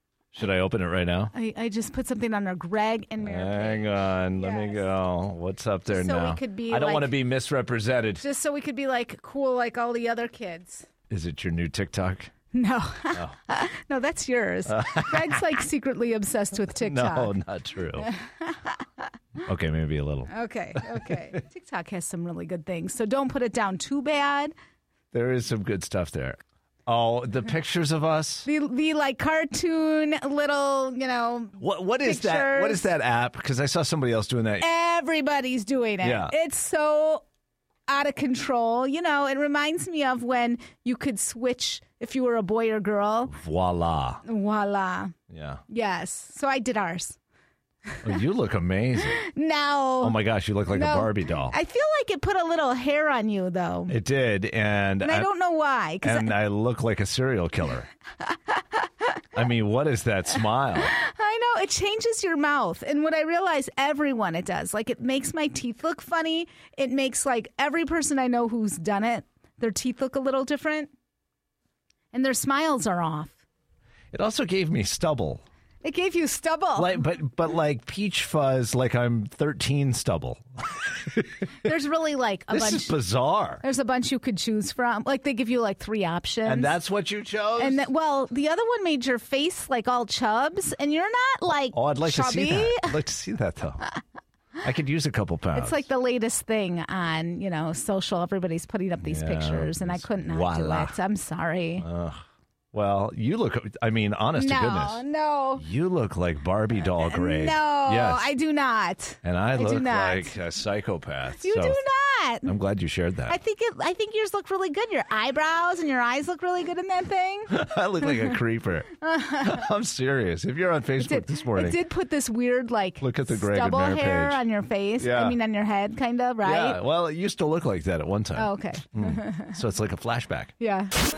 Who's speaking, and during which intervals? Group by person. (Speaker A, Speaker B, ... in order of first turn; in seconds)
Speaker A: 0.3-1.3, 3.2-8.2, 11.1-12.3, 14.7-15.4, 16.8-18.1, 19.4-21.1, 25.1-28.5, 31.6-34.6, 36.0-36.3, 43.3-44.2, 45.3-45.6, 48.0-49.2, 50.0-51.5, 53.9-55.3, 56.0-57.9, 59.3-60.9, 74.1-75.4, 76.8-81.4, 82.5-83.6, 86.4-87.8, 91.7-93.8, 94.6-95.8, 99.0-100.9, 101.8-105.0, 105.6-108.2, 109.2-111.8, 112.4-113.4, 117.5-118.9, 119.4-121.8, 123.0-124.4, 125.0-125.4, 126.4-130.5
Speaker B: 1.3-4.8, 5.9-7.2, 8.2-10.9, 12.5-17.3, 18.1-18.8, 20.3-24.5, 28.4-32.9, 34.6-37.2, 37.9-43.4, 44.2-45.1, 45.7-47.2, 49.2-50.2, 50.7-53.9, 55.0-56.3, 60.8-70.9, 72.1-73.3, 75.8-77.0, 81.6-82.9, 83.6-86.7, 87.6-92.9, 95.5-101.9, 104.4-105.6, 107.0-110.3, 111.4-112.5, 113.3-117.5, 119.0-119.6, 121.0-126.8, 128.3-129.6, 130.6-130.9